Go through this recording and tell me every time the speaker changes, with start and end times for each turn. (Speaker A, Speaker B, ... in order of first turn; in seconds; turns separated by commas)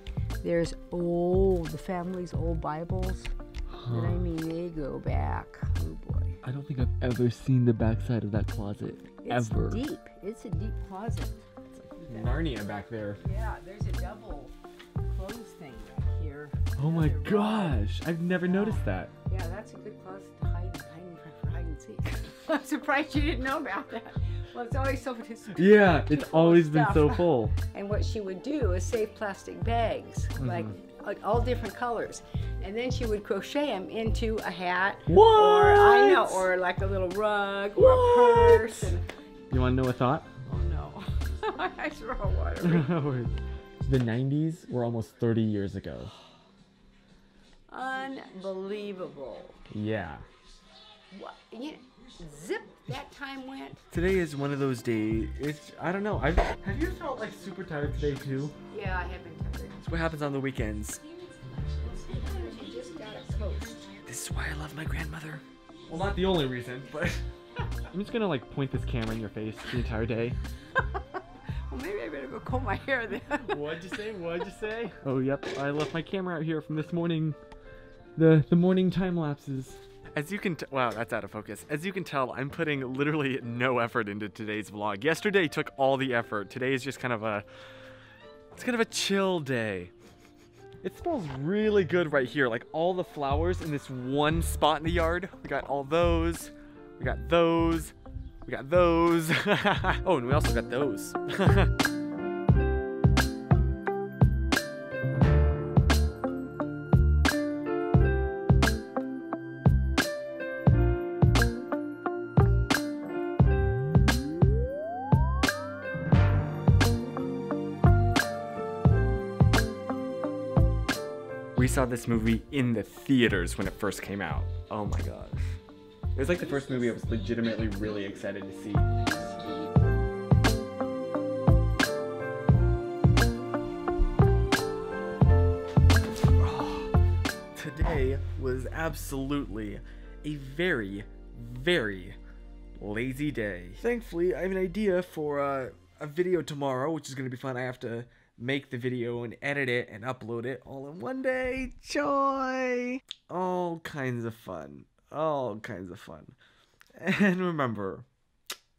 Speaker A: 0.4-3.3, Speaker B: 3.7-4.2, Speaker A: 3.9-6.4, Speaker B: 6.4-9.8, Speaker A: 9.2-11.4, Speaker B: 11.7-13.2, Speaker A: 12.0-12.4, Speaker A: 13.2-14.5, Speaker A: 15.0-17.8, Speaker B: 16.8-19.1, Speaker A: 18.4-39.0, Speaker B: 25.5-27.5, Speaker B: 30.4-30.7, Speaker B: 35.1-36.5, Speaker B: 37.7-38.9, Speaker B: 39.5-40.3, Speaker A: 40.5-42.9, Speaker B: 42.6-46.1, Speaker A: 47.7-49.6, Speaker B: 49.7-50.2, Speaker A: 51.1-53.8, Speaker B: 53.9-58.5, Speaker A: 58.7-59.8, Speaker B: 59.8-61.0, Speaker A: 61.8-63.9, Speaker B: 64.0-67.2, Speaker B: 67.9-70.4, Speaker A: 71.7-73.8, Speaker B: 73.3-77.4, Speaker B: 78.2-87.5, Speaker B: 88.5-89.9, Speaker B: 90.8-97.9, Speaker B: 98.5-101.7, Speaker B: 121.5-125.6, Speaker B: 126.1-129.4, Speaker B: 136.4-136.9, Speaker B: 137.5-142.2, Speaker B: 142.8-156.3, Speaker B: 156.9-158.1